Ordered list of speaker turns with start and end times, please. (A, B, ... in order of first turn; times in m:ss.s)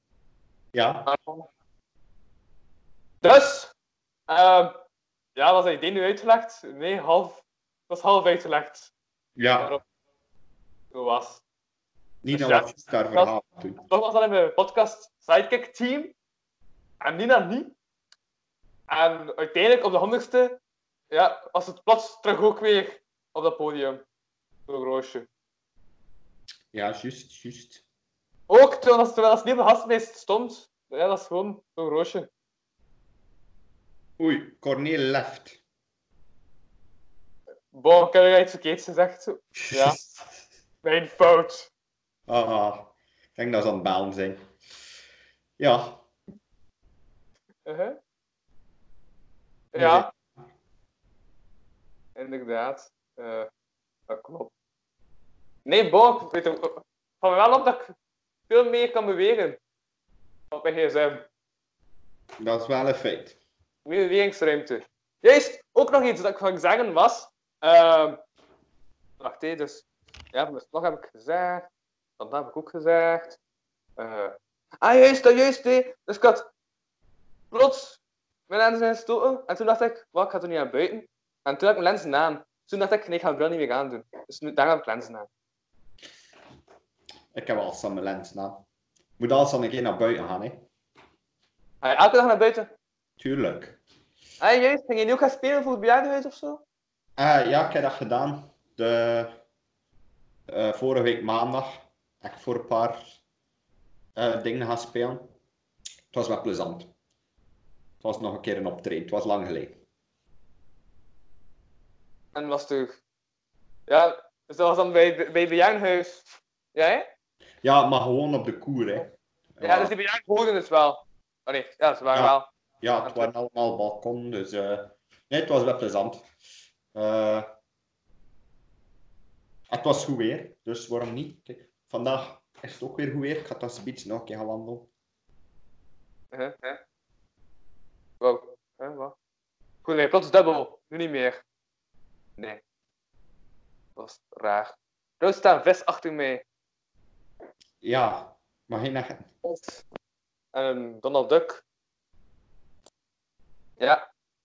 0:00.7-0:01.1 A
0:01.1-0:01.5 B
0:03.2-0:03.7 B
0:04.3-0:04.7 B
0:05.4-0:08.9 B
0:09.4-0:09.7 A
0:09.6-0:09.8 B
0:10.9-0:11.4 B
0:12.2-0:13.8 A
0:12.3-0:13.3 B
0:13.8-0:16.1 B
0:17.0-0:17.7 B
0:18.9-0:20.6 B
0:21.1-0:24.0 B
0:24.7-0:25.3 B
0:26.7-0:27.8 A
0:28.5-0:32.3 B
0:34.2-0:35.6 A
0:37.7-0:40.0 B
0:40.8-0:41.7 B
0:42.3-0:44.5 A
0:45.6-0:46.0 A
0:47.7-0:48.0 B
0:49.7-0:50.1 B
0:49.8-0:50.2 A
0:52.2-0:53.5 B
0:54.1-0:54.5 B
0:55.7-0:57.9 B
0:58.5-0:59.6 B
1:00.5-1:01.2 B
1:02.4-1:03.4 A
1:03.9-1:08.2 B
1:09.2-1:11.7 B
1:12.2-1:13.4 B
1:14.0-1:16.5 B
1:17.5-1:25.3 B
1:27.3-1:28.6 A
1:29.2-1:30.6 A
1:31.8-1:32.7 B
1:33.2-1:33.8 A
1:34.4-1:36.6 B
1:37.2-1:39.4 A
1:40.5-1:43.1 A
1:44.2-1:45.3 A
1:46.1-1:46.9 A
1:48.0-1:49.8 A
1:52.4-1:53.0 B
1:53.9-1:57.1 B
1:57.6-1:59.9 A
1:59.6-2:02.5 B
2:02.1-2:06.2 A
2:03.0-2:03.3 B
2:06.9-2:07.5 A
2:09.7-2:14.9 A
2:16.3-2:16.8 B
2:18.2-2:19.2 B
2:19.8-2:21.4 B
2:24.0-2:26.4 B
2:27.8-2:29.2 A
2:29.4-2:29.8 B
2:30.5-2:31.6 B